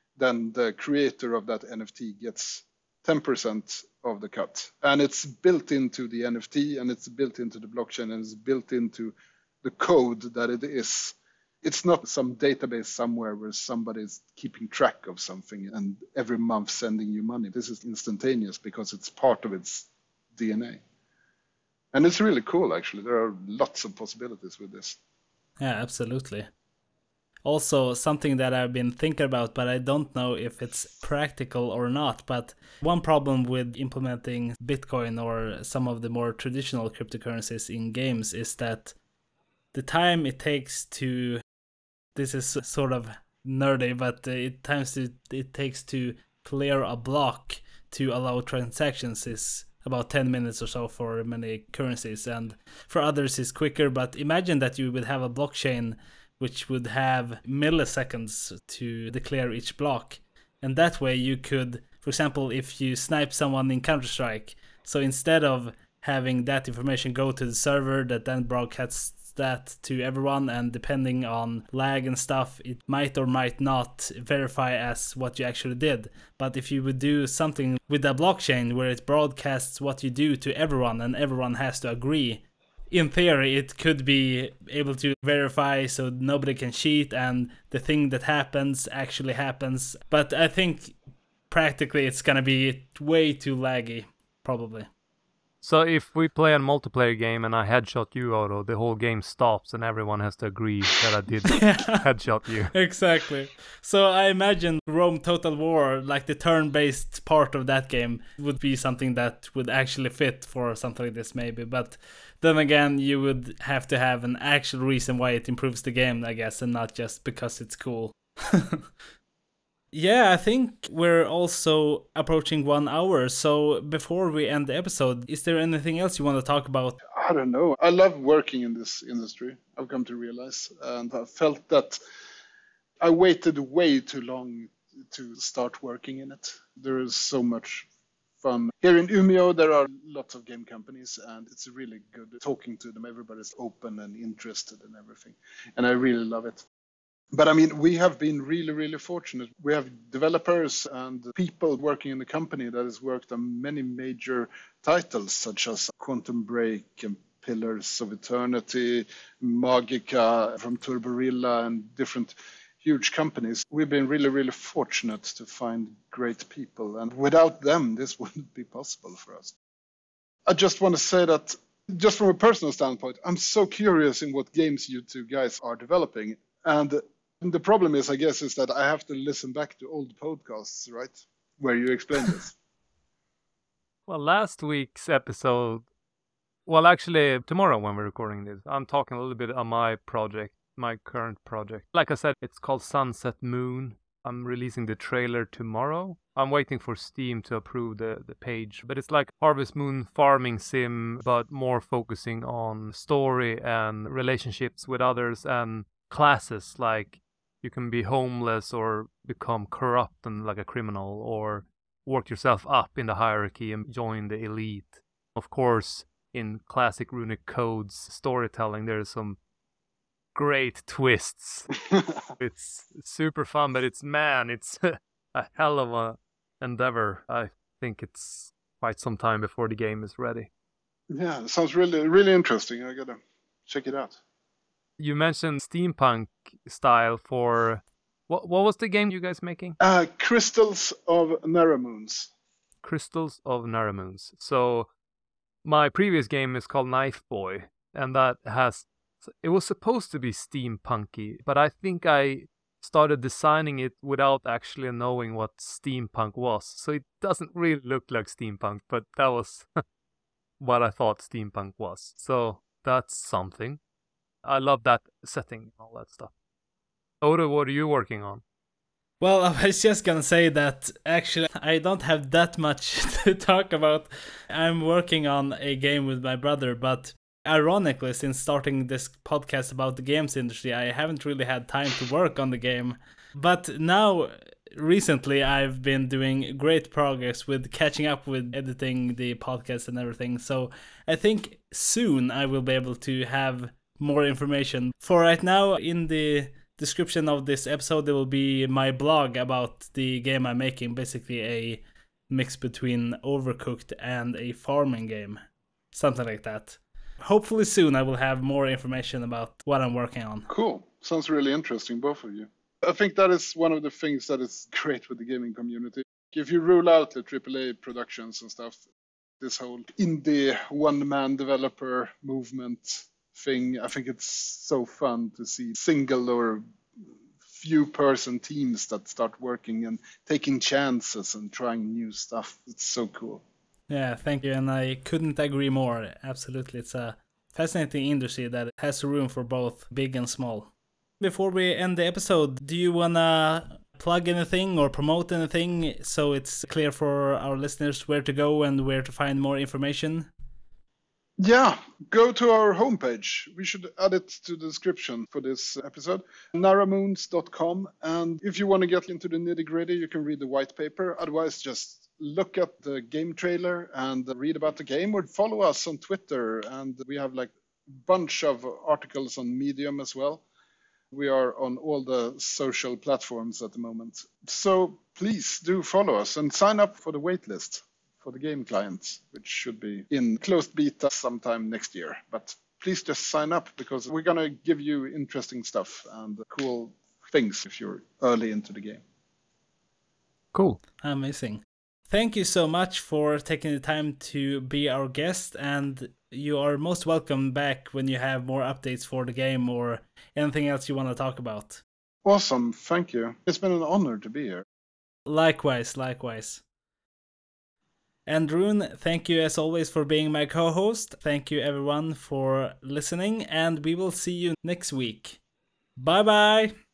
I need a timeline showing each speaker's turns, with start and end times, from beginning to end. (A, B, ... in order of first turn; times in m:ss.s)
0:00.2-0:20.8 A
0:21.9-0:25.0 A
0:25.6-0:26.5 B
0:27.4-0:38.9 B
0:39.7-0:41.4 B
0:42.1-1:31.0 B
1:31.5-1:34.9 B
1:35.6-1:42.7 C
1:41.5-1:41.9 B
1:42.7-1:58.8 B
1:59.9-2:07.0 B
2:07.1-2:12.0 A
2:13.0-2:17.9 A
2:18.4-2:26.6 A
2:27.3-2:49.6 A
2:50.5-3:02.6 A
3:04.1-3:05.8 C
3:06.6-3:39.4 C
3:40.3-3:41.7 C
3:41.9-3:42.2 A
3:42.4-3:50.5 C
3:51.1-3:54.2 A
3:55.0-3:59.8 C
3:59.8-4:02.3 A
4:02.8-4:04.9 C
4:05.6-4:19.8 C
4:20.6-4:23.8 C
4:24.4-4:26.3 C
4:27.2-4:28.4 C
4:29.2-5:05.4 B
5:05.9-5:10.5 B
5:10.5-5:18.9 A
5:19.4-5:26.6 A
5:27.4-5:33.4 A
5:33.9-5:50.3 B
5:51.4-6:10.4 A
6:11.1-6:29.0 A
6:30.5-6:30.8 C
6:31.0-6:41.8 B
6:42.2-6:44.6 A
6:45.3-6:46.6 B
6:48.3-6:55.4 B
6:56.0-6:56.7 B